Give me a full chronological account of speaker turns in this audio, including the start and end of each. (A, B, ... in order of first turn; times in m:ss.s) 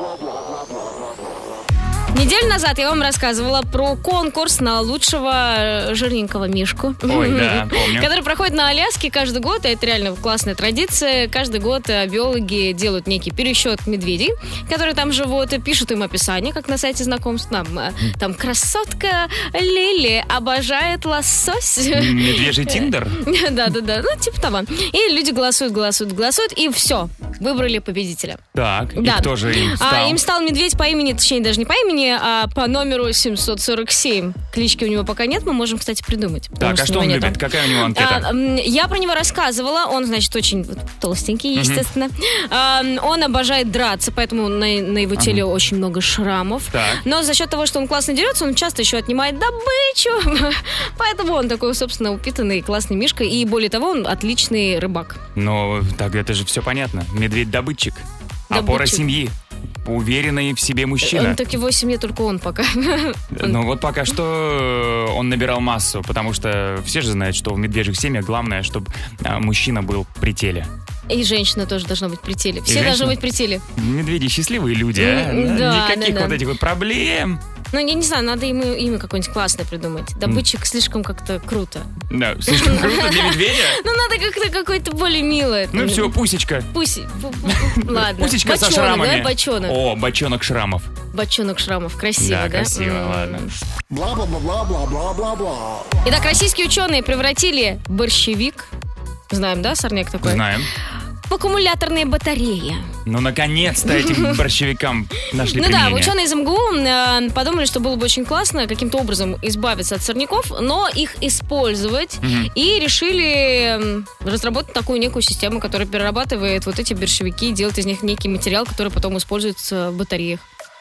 0:02.1-0:28.4 A
0:07.1-0:08.1 B
0:21.9-0:23.2 B
0:28.6-0:30.2 B
0:29.0-0:55.2 A
0:36.6-0:38.3 B
0:41.6-0:41.8 B
0:45.2-0:45.4 B
0:46.7-0:47.0 B
0:55.4-1:01.4 B
0:58.5-0:59.0 A
1:01.0-1:03.6 A
1:03.3-1:10.7 B
1:11.1-1:13.6 A
1:12.7-1:13.2 B
1:13.8-1:17.4 B
1:15.0-1:16.4 A
1:17.7-1:21.9 A
1:22.1-1:23.8 B
1:22.5-1:26.1 A
1:25.7-1:26.7 B
1:26.7-1:29.8 A
1:27.5-1:30.9 B
1:31.1-1:33.5 A
1:32.2-1:33.6 B
1:36.0-1:38.7 A
1:39.3-1:40.4 A
1:40.2-1:40.7 B
1:41.3-1:42.9 A
1:43.1-1:46.1 B
1:43.9-1:44.4 A
1:45.6-2:00.4 A
1:52.2-1:52.5 B